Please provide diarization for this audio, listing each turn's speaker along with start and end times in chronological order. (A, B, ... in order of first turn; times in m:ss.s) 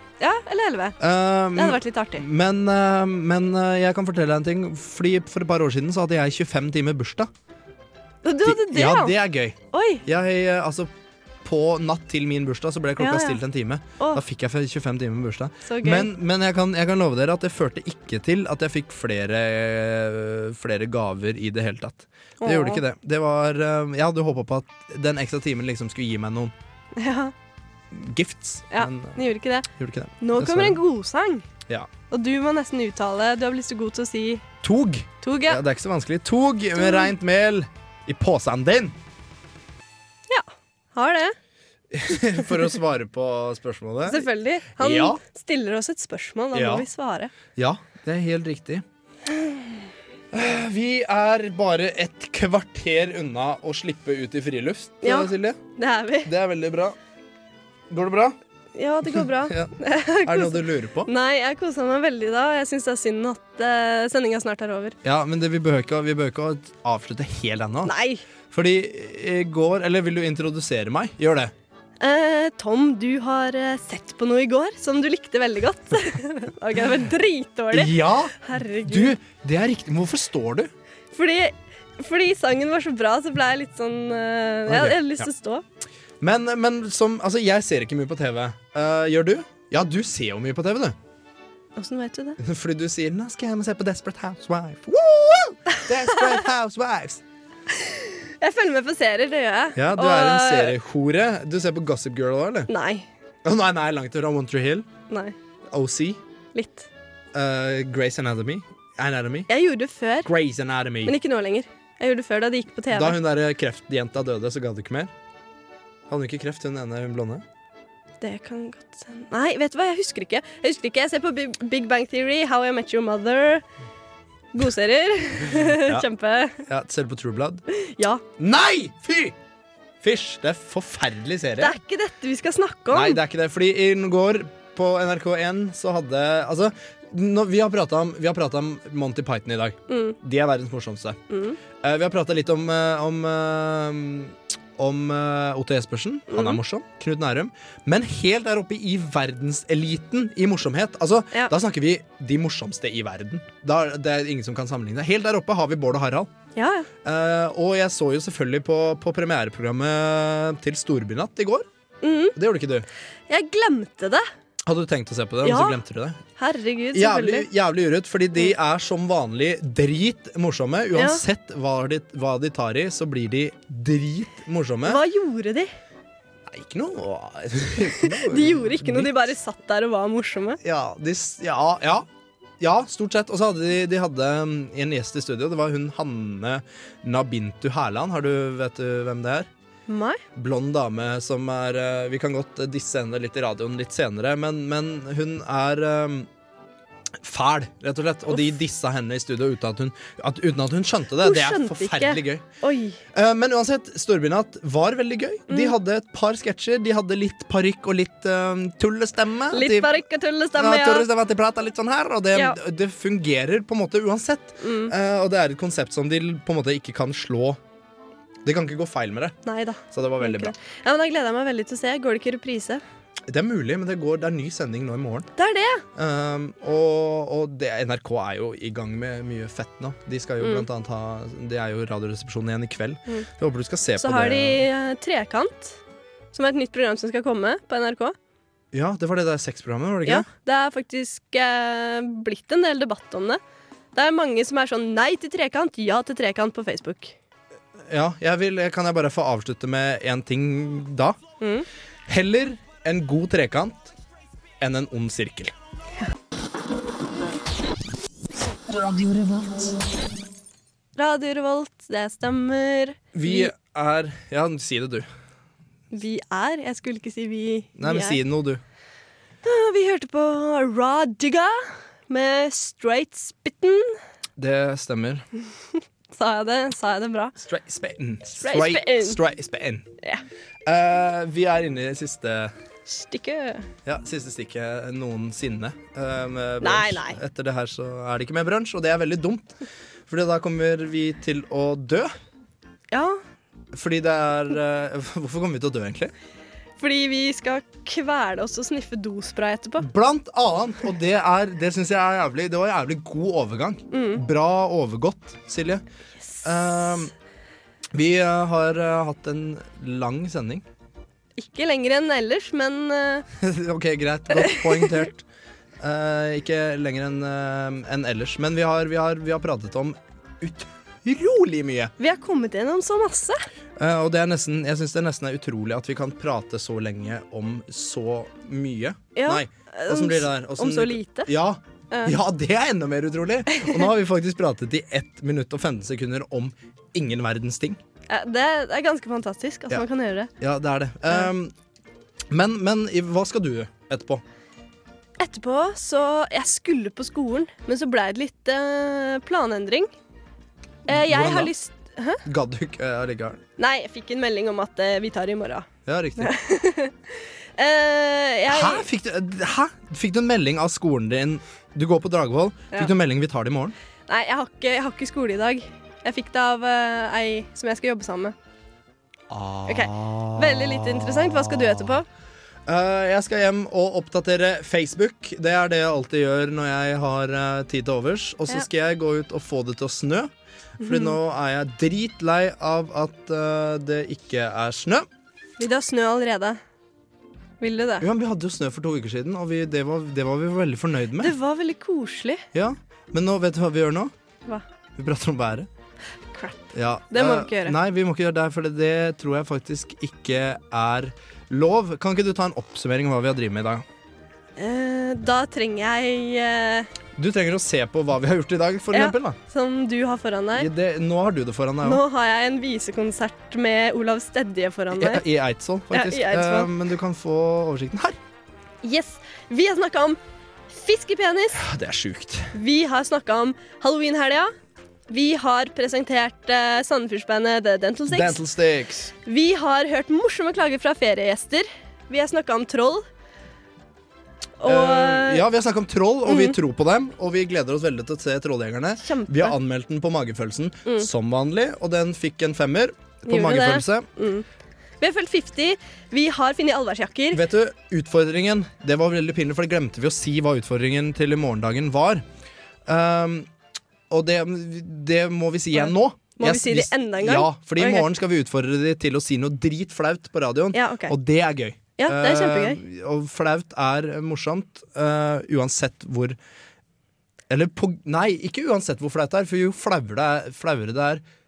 0:00.2-0:01.0 A
0:01.0-0:07.3 B
0:01.5-0:02.2 A
0:08.2-0:09.1 A
0:08.4-0:10.9 B
0:09.7-0:10.0 A
0:11.4-0:26.5 B
0:13.0-0:13.4 A
0:15.6-0:16.1 A
0:22.4-0:22.8 A
0:27.0-0:27.3 A
0:27.9-0:29.2 B
0:28.7-0:29.7 A
0:29.8-0:30.8 B
0:30.2-0:31.4 A
0:32.1-0:34.4 A
0:34.6-0:39.0 B
0:35.2-0:35.6 A
0:36.8-0:37.1 A
0:40.3-0:41.3 A
0:41.9-0:45.2 B
0:44.0-0:47.3 A
0:46.5-0:46.8 B
0:47.6-0:48.8 B
0:50.3-0:55.6 B
0:55.0-0:56.3 A
0:56.2-0:57.0 B
0:57.9-0:58.4 B
0:58.7-1:05.0 A
0:59.0-1:01.1 B
1:05.0-1:07.9 B
1:07.8-1:08.2 A
1:08.5-1:11.5 B
1:12.0-1:19.1 A
1:17.7-1:20.7 B
1:21.1-1:25.6 A
1:24.7-1:25.3 B
1:26.2-1:31.0 B
1:31.8-1:32.4 A
1:32.4-1:37.2 B
1:37.7-1:40.8 A
1:39.7-1:42.7 B
1:42.7-1:43.1 A
1:43.4-1:44.9 B
1:45.1-1:45.3 A
1:45.7-1:46.2 B
1:46.5-1:46.9 A
1:47.3-1:49.5 B
1:49.5-1:50.3 A
1:50.2-1:51.2 B
1:51.0-1:53.2 A
1:52.9-1:55.1 B
1:56.1-1:57.4 B
1:58.2-2:03.6 A
2:04.5-2:06.6 A
2:05.4-2:06.1 B
2:06.6-2:07.6 B
2:07.7-2:08.2 A
2:08.4-2:09.4 B
2:10.0-2:11.8 B
2:11.6-2:13.2 A
2:12.9-2:21.2 B
2:19.9-2:20.2 A
2:21.3-2:21.6 A
2:21.8-2:36.3 B
2:26.3-2:26.6 A
2:36.5-2:36.9 A
2:37.0-2:41.7 B
2:42.0-2:42.3 A
2:42.4-2:42.8 B
2:43.3-2:44.2 A
2:44.6-2:46.2 B
2:45.4-2:45.8 A
2:46.4-2:47.5 A
2:46.9-2:55.0 B
2:50.9-2:51.2 A
2:54.8-2:55.7 A
2:56.5-2:59.2 B
2:58.0-3:00.6 A
3:00.6-3:02.0 B
3:02.6-3:09.5 B
3:09.9-3:10.2 A
3:10.4-3:16.3 B
3:17.2-3:22.4 B
3:18.3-3:18.5 A
3:21.2-3:23.0 A
3:23.1-3:30.0 B
3:25.5-3:25.7 A
3:29.5-3:31.1 A
3:30.5-3:37.6 B
3:34.6-3:34.9 A
3:38.4-3:39.3 B
3:39.4-3:42.8 A
3:39.9-3:40.5 B
3:43.2-3:45.3 B
3:45.4-3:45.8 A
3:46.0-3:54.6 B
3:50.4-3:50.6 A
3:54.0-3:55.8 A
3:56.3-3:58.1 A
3:58.7-4:00.3 B
4:00.0-4:03.4 A
4:03.9-4:07.2 A
4:07.9-4:11.2 B
4:11.4-4:11.6 A
4:12.1-4:13.9 B
4:14.6-4:15.5 B
4:21.0-4:23.5 A
4:23.1-4:25.1 B
4:25.9-4:28.2 A
4:27.8-4:28.6 B
4:29.4-4:34.0 A
4:34.4-4:35.2 B
4:36.1-4:37.3 A
4:37.4-4:39.9 B
4:38.4-4:39.2 A
4:40.6-4:42.5 B
4:42.9-4:43.7 A
4:43.8-4:49.5 B
4:46.6-4:47.2 A
4:50.1-4:52.1 B
4:52.9-4:53.2 A
4:53.7-4:56.1 B
4:56.8-4:59.8 A
4:59.8-5:05.8 B
5:03.9-5:04.2 A
5:06.3-5:07.1 A
5:06.4-5:07.1 B
5:07.9-5:10.6 B
5:11.4-5:13.2 A
5:13.4-5:15.2 B
5:14.4-5:15.0 A
5:15.8-5:21.9 B
5:22.0-5:23.4 A
5:23.8-5:37.8 B
5:29.2-5:31.3 A
5:31.9-5:32.2 A
5:33.5-5:33.8 A
5:38.1-5:40.3 A
5:40.4-5:41.5 B
5:42.3-5:44.2 B
5:45.2-5:49.9 A
5:50.9-5:52.2 A
5:50.9-5:51.5 B
5:52.2-5:53.4 B
5:53.6-5:55.7 A
5:55.8-5:56.3 B
5:56.2-5:58.8 A
5:58.5-6:03.8 B
6:04.1-6:08.3 A
6:09.3-6:12.0 B
6:09.7-6:12.0 A
6:12.6-6:25.1 B
6:20.8-6:21.2 A
6:25.6-6:26.6 A
6:27.6-6:28.0 A
6:28.0-6:31.3 B
6:31.2-6:32.4 A
6:32.5-6:34.1 B
6:35.0-6:35.7 B
6:36.3-6:37.8 A
6:36.7-6:43.8 B
6:44.6-6:46.9 A
6:47.2-6:49.4 B
6:48.9-6:50.7 A
6:50.6-6:52.0 B
6:51.8-6:55.2 A
6:54.9-6:58.2 B
6:55.9-6:56.7 A
6:58.8-7:00.2 A
7:00.7-7:01.6 A
7:01.5-7:02.5 B
7:02.5-7:04.5 A
7:05.1-7:08.4 A
7:08.1-7:09.1 B
7:09.2-7:13.0 A
7:14.6-7:15.4 A
7:14.6-7:24.1 B
7:16.3-7:16.6 A
7:19.0-7:19.6 A
7:23.3-7:24.4 A
7:25.0-7:27.4 A
7:27.3-7:32.2 B
7:32.8-7:33.5 B
7:34.1-7:46.4 B
7:35.8-7:38.1 A
7:40.7-7:41.1 A
7:42.0-7:42.8 A
7:47.5-7:51.2 B